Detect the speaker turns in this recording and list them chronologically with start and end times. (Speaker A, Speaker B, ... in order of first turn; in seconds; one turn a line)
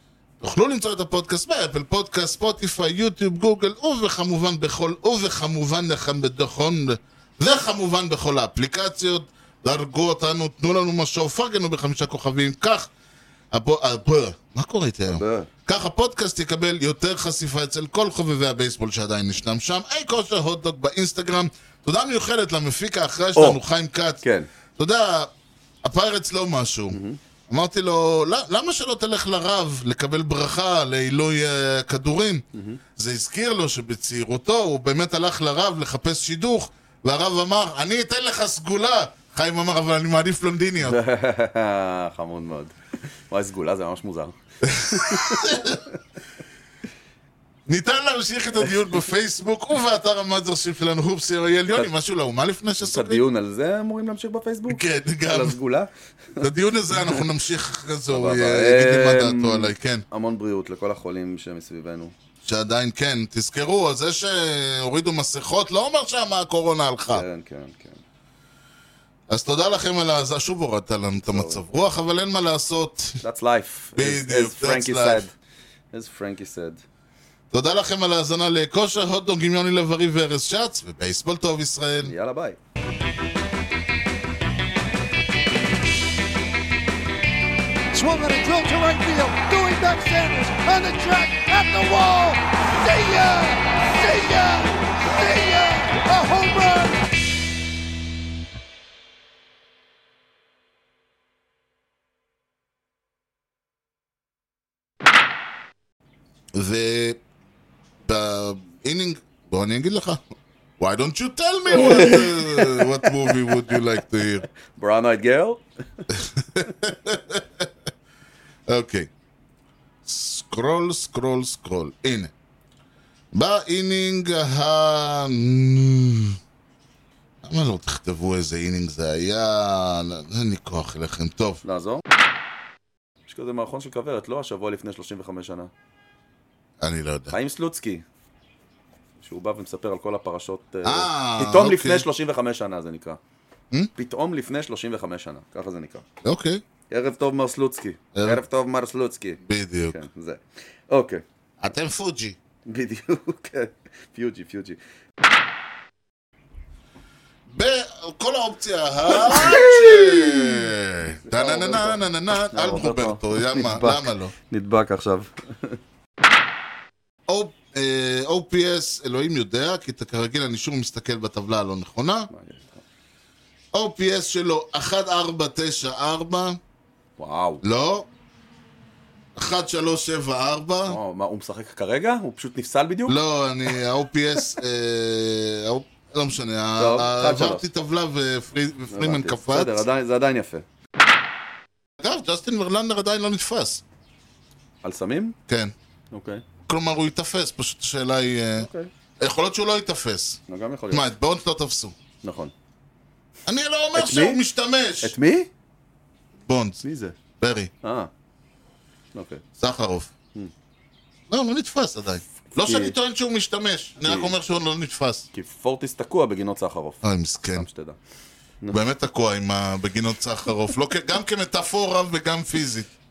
Speaker A: 0.4-12.9
Speaker A: 13.5-24.2
Speaker B: 15.1-15.5
Speaker B: 24.2-24.5
Speaker A: 24.8-25.3
Speaker A: 25.8-32.4
Speaker B: 26.9-27.2
Speaker B: 32.5-32.8
Speaker A: 33.0-41.0
Speaker B: 40.8-45.9
Speaker A: 44.6-45.8
Speaker A: 47.7-53.2
Speaker B: 52.8-57.3
Speaker A: 54.7-55.5
Speaker A: 56.4-60.0
Speaker B: 58.1-62.1
Speaker A: 62.4-67.2
Speaker B: 67.1-68.0
Speaker A: 69.3-73.2
Speaker B: 71.2-71.6
Speaker B: 73.2-75.3
Speaker A: 74.0-75.2
Speaker B: 75.9-76.8
Speaker A: 77.5-82.1
Speaker B: 82.0-82.6
Speaker C: 87.9-96.9
Speaker A: 106.5-107.2
Speaker A: 108.0-110.2
Speaker A: 110.8-114.5
Speaker B: 111.7-115.6
Speaker A: 116.1-117.7
Speaker A: 118.7-119.1
Speaker A: 120.0-122.3
Speaker A: 123.3-126.3
Speaker A: 127.4-131.6
Speaker B: 131.6-132.0
Speaker B: 133.2-135.7
Speaker A: 136.8-137.4
Speaker B: 137.3-138.0
Speaker B: 139.2-143.2
Speaker A: 140.8-142.1
Speaker B: 144.0-146.0
Speaker A: 146.2-146.6
Speaker B: 146.9-149.4
Speaker A: 148.1-148.4
Speaker A: 149.4-150.0
Speaker B: 149.9-151.2
Speaker A: 151.6-152.4
Speaker B: 152.7-154.8
Speaker A: 157.5-164.3
Speaker B: 159.1-165.8
Speaker A: 167.3-172.3
Speaker B: 172.3-172.8
Speaker A: 173.7-176.6
Speaker B: 177.2-177.6
Speaker A: 177.6-178.1
Speaker A: 179.3-181.0
Speaker B: 180.8-183.2
Speaker A: 183.1-189.8
Speaker B: 186.8-187.7
Speaker B: 188.9-190.6
Speaker A: 192.0-193.8
Speaker B: 194.8-195.3
Speaker A: 195.5-195.7
Speaker B: 196.1-196.4
Speaker A: 196.6-198.7
Speaker B: 198.6-198.9
Speaker A: 199.2-201.9
Speaker B: 200.5-201.1
Speaker B: 202.2-202.5
Speaker A: 203.4-205.1
Speaker B: 203.9-204.4
Speaker B: 205.0-205.5
Speaker A: 206.4-206.8
Speaker B: 206.8-207.2
Speaker A: 207.4-207.7
Speaker B: 207.8-208.1
Speaker B: 209.1-209.4
Speaker A: 209.6-210.1
Speaker A: 211.3-215.3
Speaker B: 212.5-212.9
Speaker B: 214.0-214.3
Speaker B: 215.3-218.0
Speaker A: 217.0-217.7
Speaker A: 218.7-222.9